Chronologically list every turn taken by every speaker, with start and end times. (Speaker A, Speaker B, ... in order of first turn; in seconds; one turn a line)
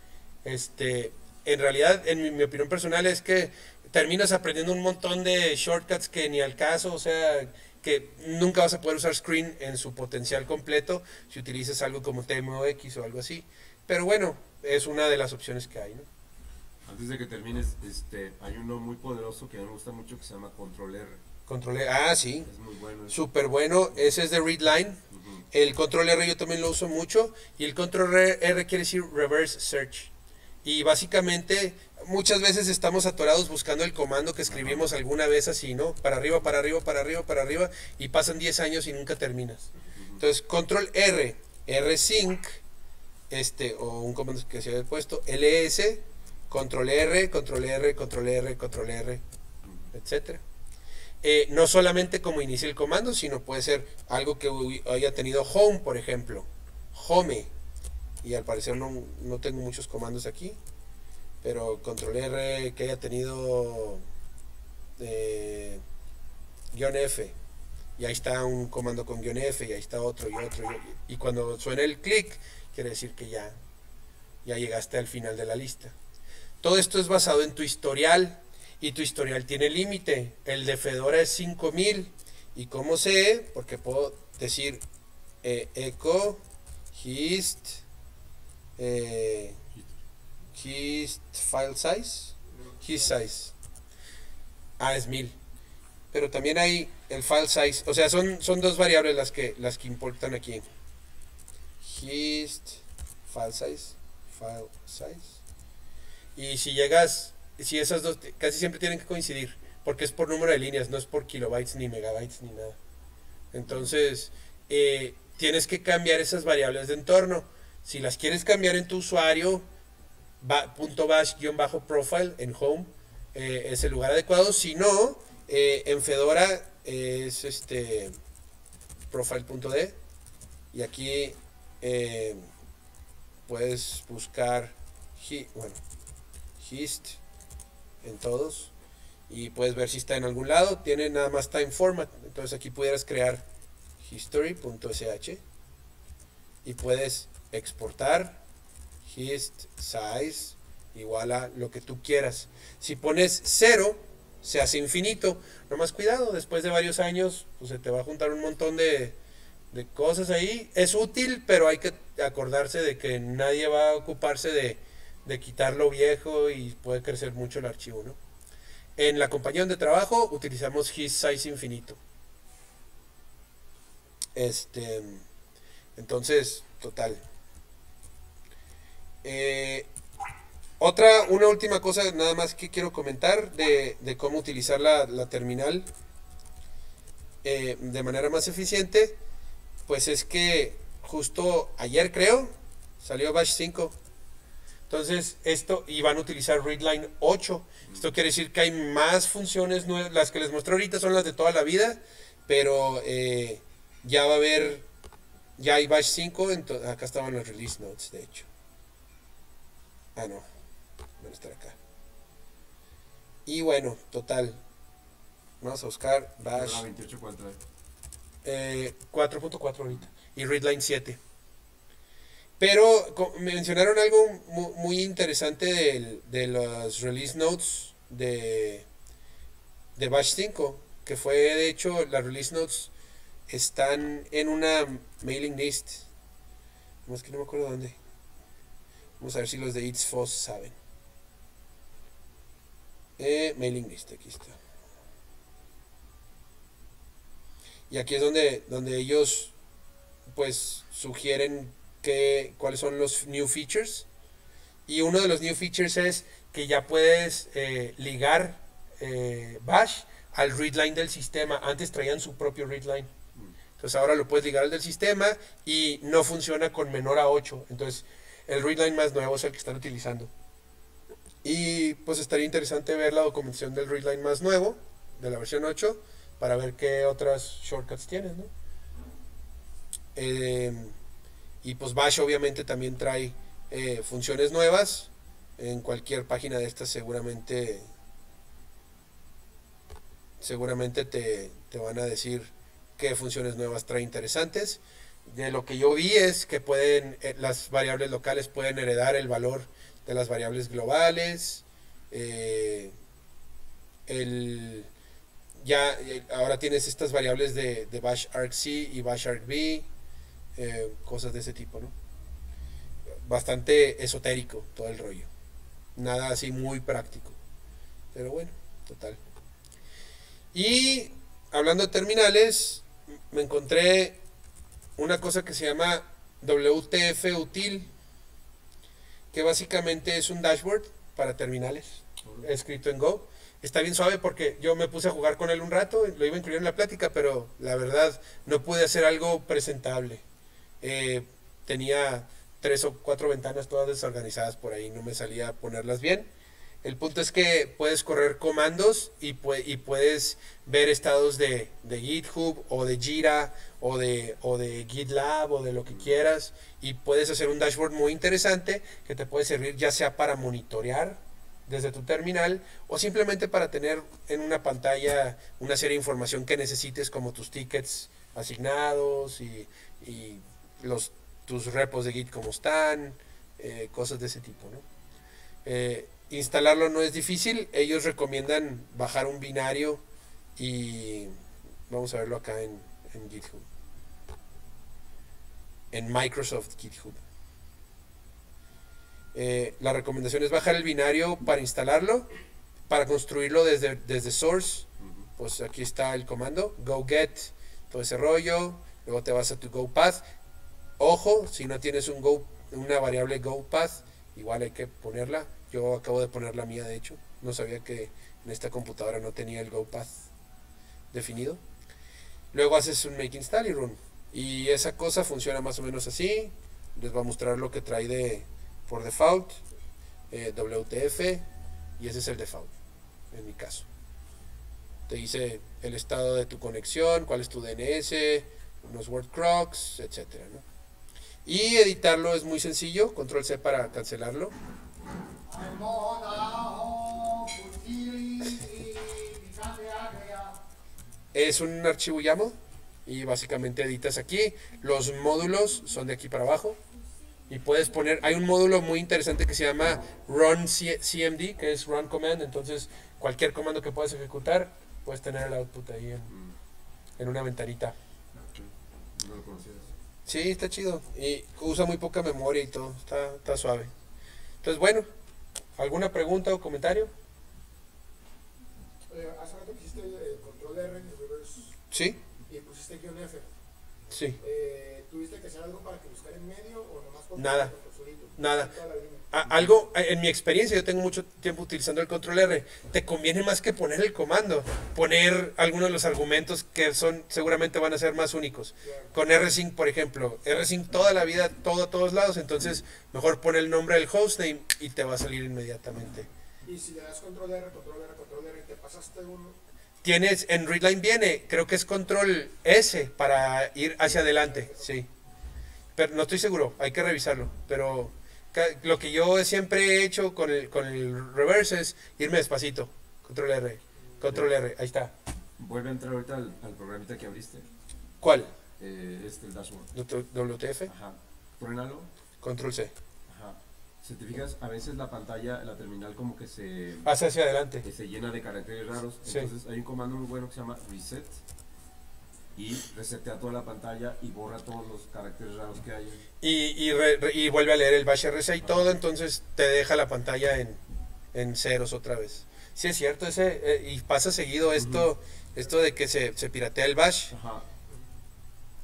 Speaker A: 0.4-16.1
Speaker B: 16.9-21.2
Speaker A: 21.5-22.5
Speaker B: 22.5-23.2
Speaker A: 23.1-25.0
Speaker B: 23.9-24.2
Speaker B: 25.1-25.4
Speaker A: 25.5-30.1
Speaker A: 30.6-42.6
Speaker B: 34.5-34.9
Speaker B: 40.0-40.2
Speaker A: 43.3-49.2
Speaker B: 49.6-49.9
Speaker A: 49.9-50.4
Speaker A: 51.2-57.5
Speaker A: 58.2-60.6
Speaker A: 61.4-64.0
Speaker A: 65.0-65.8
Speaker A: 66.7-67.3
Speaker A: 68.0-73.6
Speaker A: 74.4-75.9
Speaker A: 76.6-84.8
Speaker A: 85.4-86.4
Speaker A: 86.9-87.8
Speaker A: 88.8-89.6
Speaker A: 90.5-93.5
Speaker C: 92.5-93.1
Speaker A: 94.8-95.4
Speaker A: 96.1-100.7
Speaker A: 101.8-105.4
Speaker A: 106.4-112.8
Speaker A: 113.5-119.6
Speaker A: 120.4-128.1
Speaker A: 129.1-130.0
Speaker A: 130.7-132.5
Speaker A: 133.5-135.8
Speaker A: 136.6-137.2
Speaker A: 138.0-138.7
Speaker A: 139.3-143.4
Speaker A: 144.0-145.4
Speaker A: 146.6-148.4
Speaker A: 149.1-159.2
Speaker A: 159.7-168.2
Speaker A: 169.0-172.0
Speaker A: 174.3-175.2
Speaker A: 176.0-177.2
Speaker A: 179.2-179.9
Speaker A: 180.8-185.9
Speaker A: 187.4-189.2
Speaker A: 189.9-194.0
Speaker A: 194.9-204.9
Speaker A: 205.6-208.5
Speaker A: 210.2-210.4
Speaker A: 211.2-211.8
Speaker A: 213.5-214.6
Speaker A: 215.6-216.9
Speaker B: 216.5-217.6
Speaker A: 218.4-221.2
Speaker A: 222.6-228.9
Speaker A: 230.0-232.9
Speaker A: 233.5-236.1
Speaker A: 237.1-238.0
Speaker A: 239.2-240.8
Speaker A: 243.2-244.6
Speaker A: 247.9-249.5
Speaker A: 250.3-254.1
Speaker A: 254.9-263.1
Speaker A: 263.8-270.3
Speaker A: 271.4-278.5
Speaker A: 280.1-280.9
Speaker A: 281.6-287.9
Speaker A: 290.4-302.9
Speaker A: 304.1-304.9
Speaker A: 305.6-309.9
Speaker A: 310.6-311.9
Speaker A: 313.2-315.3
Speaker A: 316.0-317.4
Speaker A: 318.1-319.2
Speaker A: 320.5-324.2
Speaker A: 325.0-327.9
Speaker A: 329.3-340.2
Speaker A: 340.8-346.3
Speaker A: 346.8-374.8
Speaker A: 375.6-380.0
Speaker A: 380.6-381.3
Speaker A: 381.9-383.7
Speaker A: 385.9-387.2
Speaker A: 389.3-392.3
Speaker A: 392.9-400.2
Speaker A: 401.0-410.3
Speaker A: 411.1-411.6
Speaker A: 412.5-419.6
Speaker A: 420.3-421.4
Speaker A: 422.0-422.7
Speaker A: 423.3-423.9
Speaker A: 425.1-430.6
Speaker A: 431.4-434.5
Speaker C: 435.5-440.6
Speaker A: 441.3-446.8
Speaker A: 447.5-456.3
Speaker B: 456.3-456.6
Speaker A: 457.2-457.9
Speaker B: 458.4-459.9
Speaker A: 460.3-463.9
Speaker A: 464.6-465.1
Speaker A: 465.8-467.1
Speaker C: 469.1-471.8
Speaker A: 471.9-472.2
Speaker C: 472.5-473.5
Speaker A: 474.1-474.4
Speaker C: 474.4-479.3
Speaker A: 477.4-477.7
Speaker A: 478.4-478.7
Speaker A: 479.3-496.3
Speaker C: 488.8-489.1
Speaker C: 496.6-499.6
Speaker A: 500.0-505.1
Speaker C: 504.1-504.9
Speaker A: 506.0-515.1
Speaker B: 515.6-517.7
Speaker A: 518.2-518.5
Speaker B: 518.8-519.9
Speaker A: 519.9-520.9
Speaker B: 520.9-522.1
Speaker A: 522.4-522.9
Speaker B: 523.3-527.1
Speaker A: 527.0-527.8
Speaker B: 527.8-531.4
Speaker B: 532.5-536.3
Speaker A: 536.4-540.8
Speaker A: 541.3-547.3
Speaker B: 544.8-545.1
Speaker B: 547.3-547.7